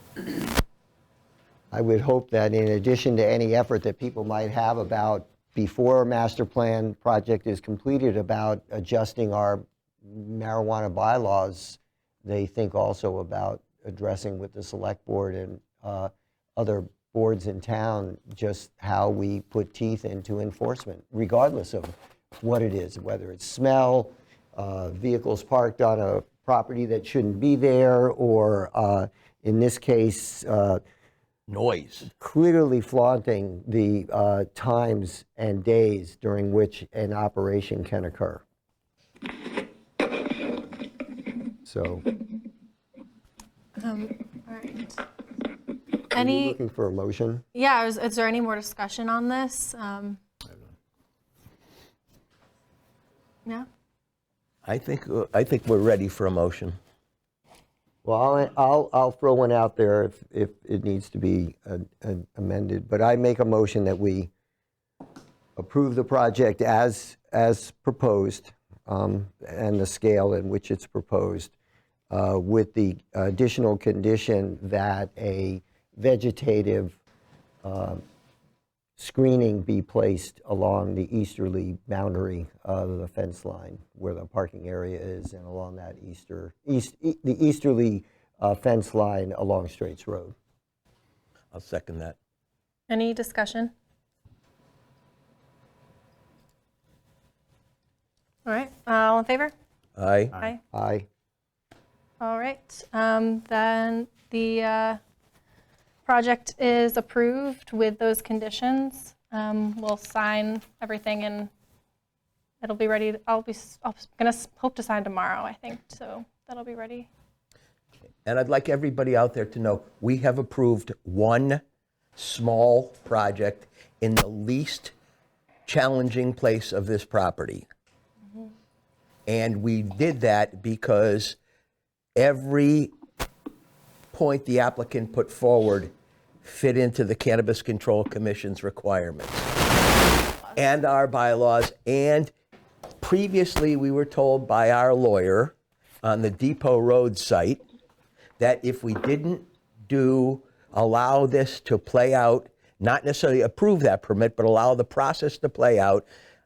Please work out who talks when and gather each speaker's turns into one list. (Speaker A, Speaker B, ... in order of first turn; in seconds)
Speaker A: 1.7-30.8, 32.1-38.4, 41.6-42.0, 46.1-47.4, 58.0-64.3, 65.6-71.5, 72.1-77.0, 77.6-78.0, 79.0-90.3, 100.7-101.1
Speaker B: 31.5-32.1, 54.6-56.8, 91.5-92.2, 100.0-100.4, 118.2-121.6, 122.2-124.9, 125.7-127.7, 129.3-131.4, 132.2-132.9, 134.1-135.9, 136.4-139.5, 140.6-142.3, 143.0-147.6, 148.4-156.1
Speaker C: 43.8-45.0, 46.1-46.6, 47.5-50.2, 92.9-93.7, 98.4-99.5, 100.3-100.6, 102.2-105.0, 106.0-111.5, 112.6-117.1, 140.2-140.7